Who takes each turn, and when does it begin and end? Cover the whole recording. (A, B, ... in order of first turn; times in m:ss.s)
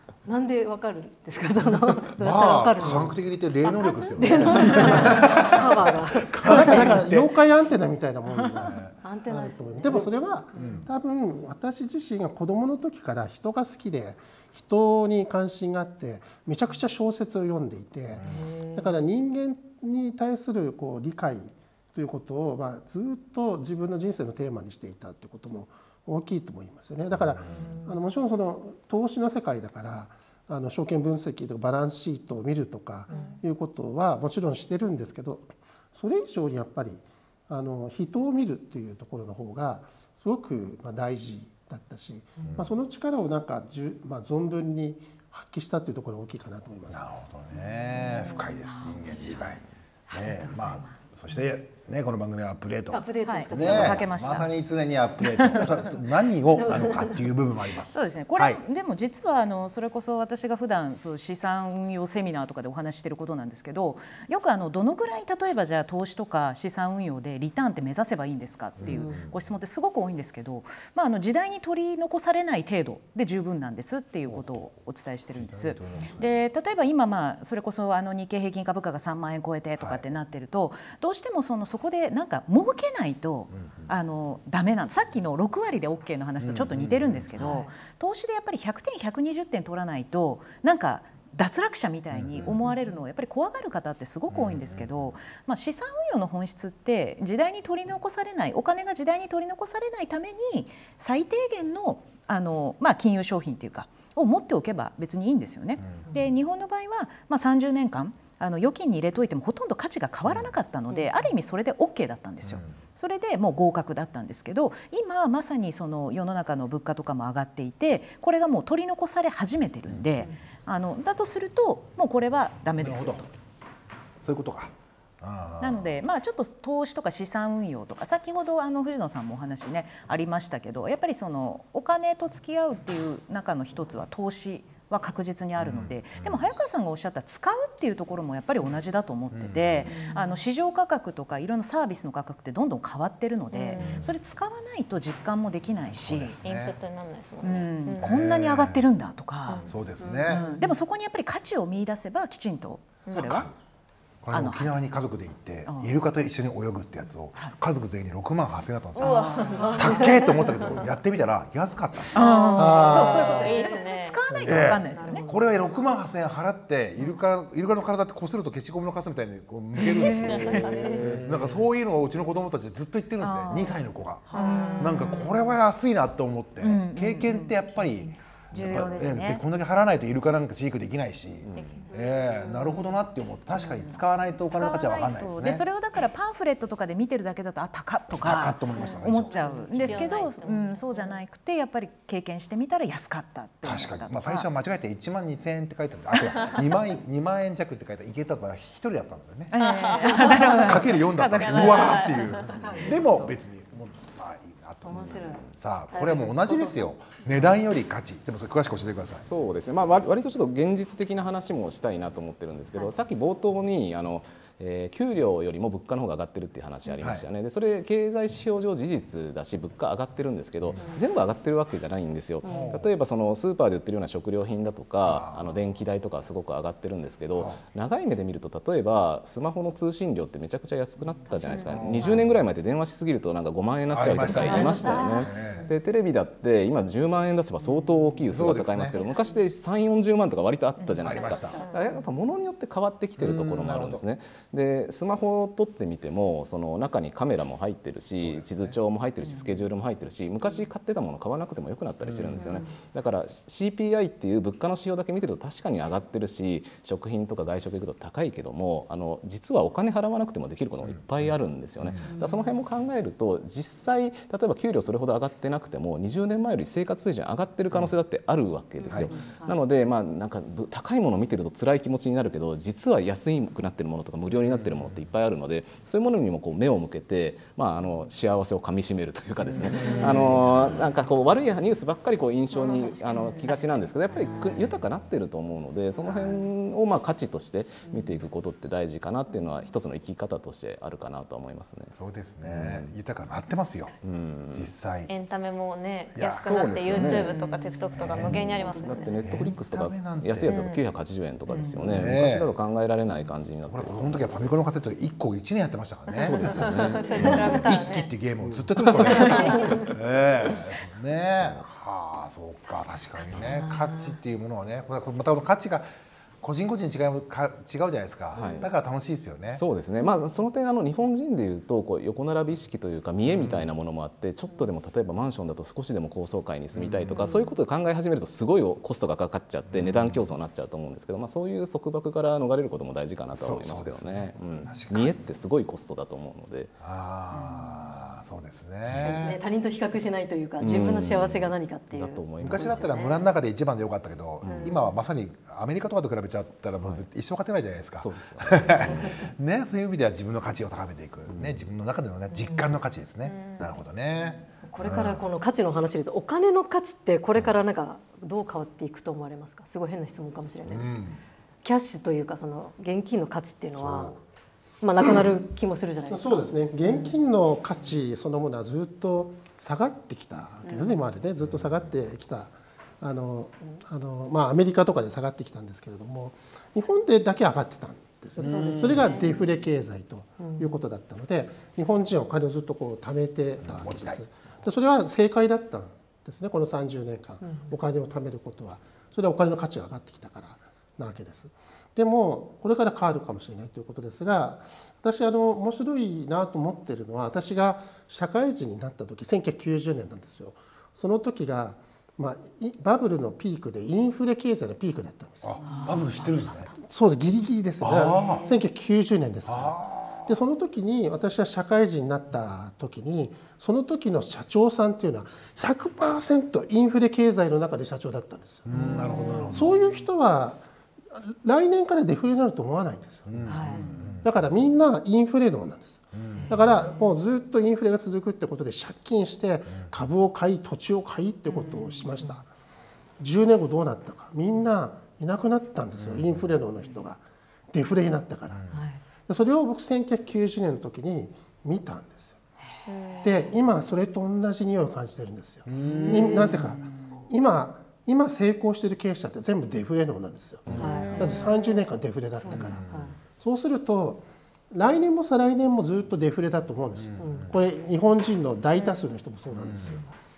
0:00.2-0:07.0 A
0:02.1-0:07.4 B
0:04.4-0:05.2 C
0:06.4-0:47.1 C
0:09.0-0:10.1 A
0:09.8-0:10.9 B
0:18.2-0:18.5 B
0:18.2-0:19.0 A
0:27.2-0:27.7 B
0:27.5-0:27.9 A
0:33.1-0:33.4 A
0:42.4-0:42.7 B
0:46.9-0:58.6 B
0:48.0-0:51.0 D
0:52.9-0:54.0 A
0:53.2-0:54.5 D
0:55.3-0:55.6 D
0:56.5-0:57.3 A
0:57.9-2:03.3 D
1:08.8-1:09.4 B
1:08.9-1:09.2 A
1:14.2-1:14.5 B
1:15.3-1:16.3 B
1:19.8-1:20.0 B
1:26.4-1:27.4 B
1:32.1-1:32.6 B
1:34.3-1:35.1 B
1:50.2-1:50.5 B
2:02.8-2:03.3 B
2:04.2-2:05.9 B
2:05.6-2:26.4 D
2:15.6-2:16.5 B
2:19.3-2:19.9 B
2:23.5-2:24.1 E
2:23.8-2:24.2 B
2:25.8-2:26.8 B
2:26.4-2:28.0 E
2:27.4-2:29.6 D
2:28.0-2:28.9 B
2:29.7-2:30.5 B
2:30.3-2:33.5 D
2:33.0-2:33.3 E
2:33.1-2:33.5 B
2:34.2-2:42.2 B
2:34.3-2:34.7 D
2:35.6-2:36.0 D
2:38.9-2:40.8 E
2:39.0-2:40.0 D
2:42.1-2:45.2 D
2:42.1-2:44.2 E
2:42.5-2:43.6 C
2:44.4-3:05.6 B
2:44.9-2:45.6 A
2:49.8-2:51.0 E
2:49.8-2:50.9 D
2:50.9-2:51.6 C
2:53.2-2:55.4 D
2:54.3-2:54.7 E
2:54.3-2:54.9 A
2:56.6-2:57.8 D
2:58.5-2:59.4 D
3:01.4-3:01.8 F
3:01.6-3:02.9 E
3:03.6-3:14.5 D
3:08.2-3:10.1 B
3:08.7-3:11.2 E
3:13.6-3:19.5 B
3:19.5-3:22.1 D
3:19.6-3:22.6 E
3:20.5-3:29.2 B
3:22.5-3:23.0 A
3:22.8-3:23.3 D
3:24.8-3:26.9 A
3:29.2-4:53.0 F
3:37.0-3:37.2 B
3:42.4-3:42.7 A
3:42.4-3:42.8 B
3:45.0-3:45.5 B
3:51.3-3:51.8 E
3:51.6-3:52.3 B
3:53.9-3:55.7 B
3:54.3-3:55.5 A
3:58.3-3:59.0 B
4:00.8-4:01.2 D
4:01.0-4:01.6 B
4:01.6-4:02.0 E
4:03.2-4:04.0 B
4:08.2-4:08.8 B
4:12.0-4:12.6 B
4:12.4-4:12.7 A
4:22.0-4:22.3 A
4:29.0-4:29.6 A
4:39.6-4:40.5 B
4:46.0-4:46.4 B
4:52.0-4:53.9 B
4:54.0-4:54.7 F
4:54.5-4:55.1 B
4:55.1-4:59.3 E
4:56.1-4:57.2 B
4:57.0-4:57.3 F
4:58.0-4:58.4 B
4:58.4-5:04.5 F
4:59.2-5:00.5 B
5:00.4-5:00.8 E
5:01.9-5:02.5 B
5:03.7-5:15.9 B
5:06.2-5:07.8 F
5:06.4-5:08.0 A
5:07.1-5:08.1 E
5:09.2-5:09.6 E
5:09.2-5:09.9 A
5:13.4-5:14.2 A
5:16.4-5:19.6 B
5:18.4-5:18.6 F
5:19.5-5:36.8 F
5:23.2-5:23.6 B
5:26.8-5:27.3 B
5:29.7-5:30.2 B
5:33.4-5:35.1 B
5:36.8-5:39.4 B
5:37.4-5:37.8 D
5:39.0-5:43.2 A
5:40.6-5:42.6 F
5:42.4-5:55.2 B
5:44.4-5:44.9 A
5:46.8-5:47.0 F
5:47.9-5:49.2 F
5:51.3-5:51.6 F
5:52.4-5:52.7 A
5:53.2-5:53.8 E
5:54.6-6:01.0 A
6:00.6-6:01.2 B
6:01.6-6:04.1 A
6:03.7-6:04.2 B
6:04.8-6:07.1 A
6:06.1-6:45.6 C
6:10.6-6:10.9 A
6:18.4-6:19.1 B
6:18.4-6:19.4 A
6:20.4-6:20.8 A
6:23.6-6:24.2 B
6:45.4-6:46.7 B
6:45.6-6:46.8 A
6:46.8-6:58.7 C
6:47.8-6:48.4 B
6:48.3-6:48.5 A
6:49.5-6:50.3 B
6:58.6-6:59.7 B
6:59.5-7:03.5 C
7:03.3-7:04.3 B
7:03.4-7:03.8 A
7:04.2-7:12.5 C
7:06.1-7:06.7 B
7:13.2-7:18.6 C
7:16.0-7:16.4 B
7:18.5-7:18.8 B
7:18.7-7:19.0 A
7:19.2-7:22.4 C
7:22.9-7:23.5 E
7:23.2-7:40.1 C
7:25.6-7:26.7 B
7:26.2-7:26.5 A
7:30.8-7:31.2 B
7:30.8-7:31.3 A
7:32.4-7:33.2 A
7:32.5-7:33.0 B
7:37.2-7:37.5 A
7:37.2-7:37.5 B
7:39.7-7:39.9 B